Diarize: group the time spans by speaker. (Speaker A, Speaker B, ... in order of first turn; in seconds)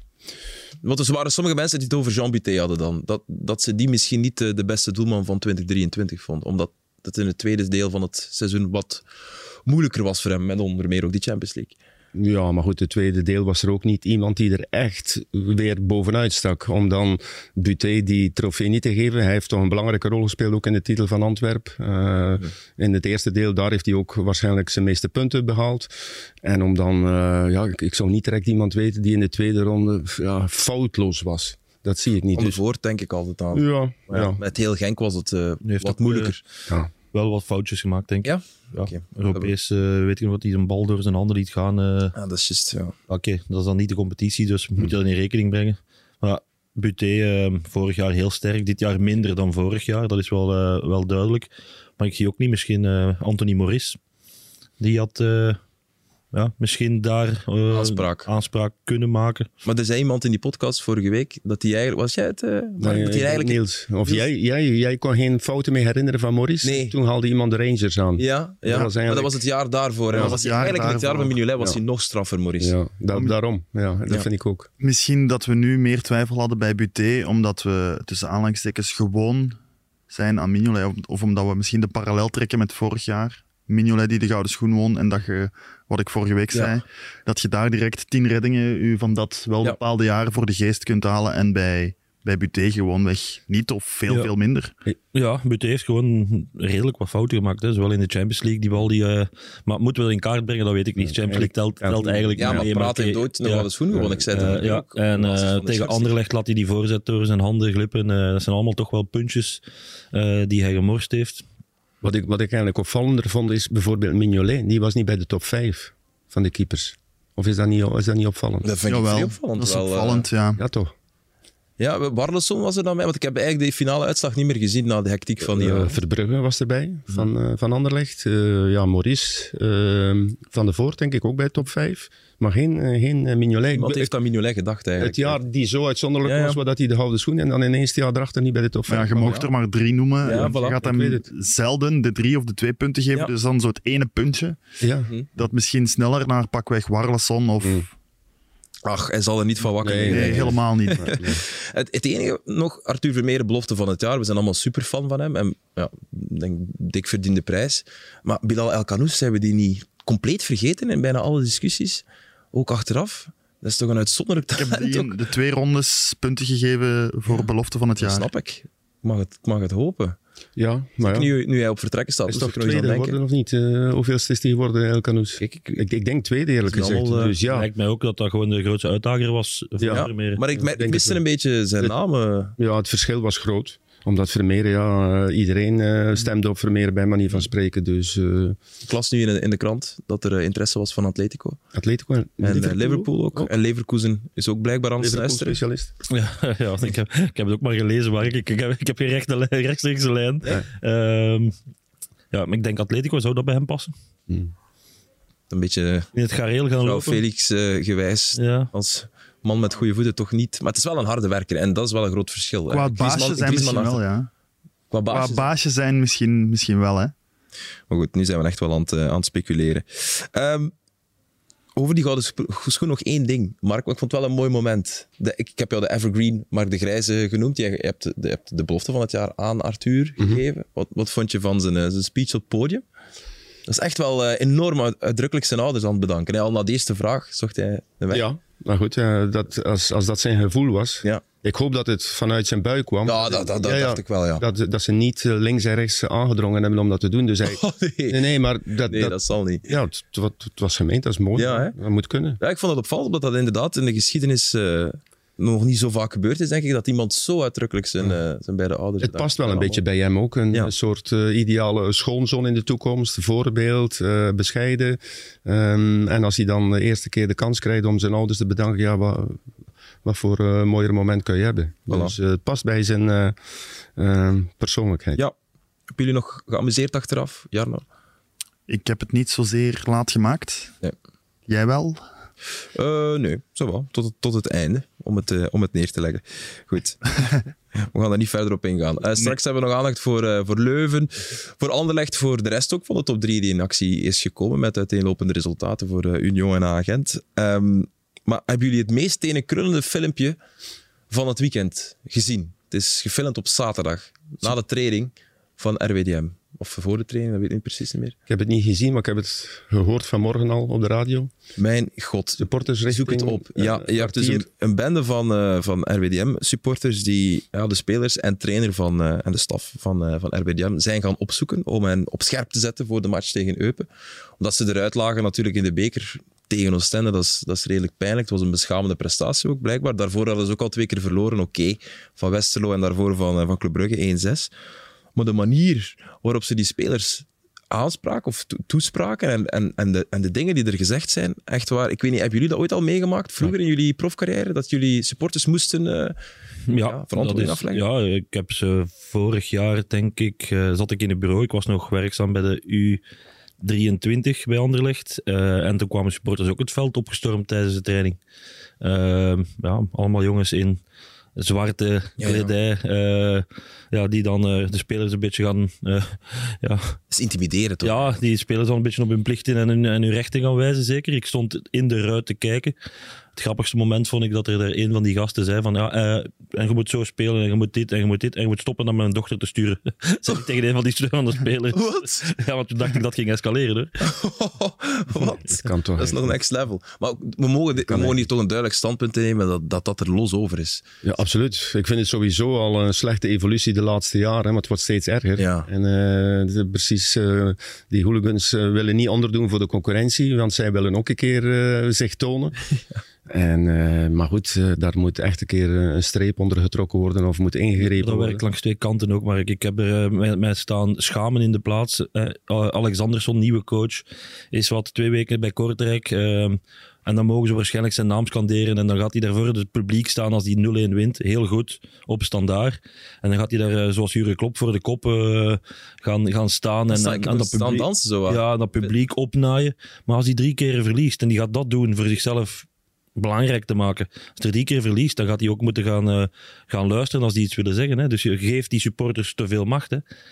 Speaker A: 0.8-9.0, 9.7-11.8, 32.3-36.4, 38.2-39.5, 42.1-43.0, 57.7-58.3, 59.6-64.3, 66.6-67.0, 68.2-72.8, 102.4-106.1, 118.6-120.3, 121.8-126.0, 133.7-135.4, 136.2-136.6, 139.2-139.5, 140.2-140.8, 148.8-165.1, 168.0-170.2, 171.0-173.2, 175.4-175.8, 176.7-177.4, 179.9-182.6, 188.9-191.6, 192.4-195.6, 205.5-206.1, 206.8-214.0, 214.9-215.5, 217.9-220.7, 221.8-232.8, 233.7-238.3, 243.1-244.4, 247.4-249.7, 251.3-251.8, 252.4-259.8, 271.9-272.1, 275.9-277.8, 282.8-300.4, 301.1-308.1, 311.6-323.9, 324.4-334.5, 335.1-346.2, 346.8-347.8, 362.2-362.5, 367.1-368.2, 381.7-382.3, 384.0-390.8, 395.4-395.7, 426.9-428.9
Speaker B: 12.1-32.6, 33.5-34.4, 62.8-69.4, 70.1-70.4, 72.6-74.7, 101.0-102.7, 103.9-104.6, 112.0-118.7, 120.6-120.9, 125.4-134.1, 135.0-139.4, 140.3-141.3, 144.8-145.1, 149.8-151.4, 170.6-171.3, 172.3-177.7, 179.8-181.2, 182.6-188.6, 191.7-193.5, 195.0-195.9, 238.1-252.4, 259.0-269.4, 270.0-273.4, 274.0-275.2, 308.3-311.3, 312.4-314.5, 385.4-386.4, 387.8-388.2, 391.0-402.6, 403.3-408.4
Speaker C: 35.6-36.4, 37.1-42.1, 43.1-54.0, 54.8-55.6, 56.3-59.5, 95.1-103.7, 104.3-111.5, 177.5-180.4, 196.1-201.6, 202.3-203.9, 206.1-207.2, 208.4-208.7, 346.7-353.0, 353.6-358.2, 358.8-360.8, 361.4-367.0, 367.8-372.8, 373.4-384.1, 407.8-440.0
Speaker D: 70.1-71.4, 74.8-79.6, 80.1-94.7, 118.9-120.6, 138.9-144.6, 145.4-147.9, 150.1-151.2, 164.6-168.3, 212.7-214.3, 215.1-217.1, 278.7-280.7, 281.5-282.0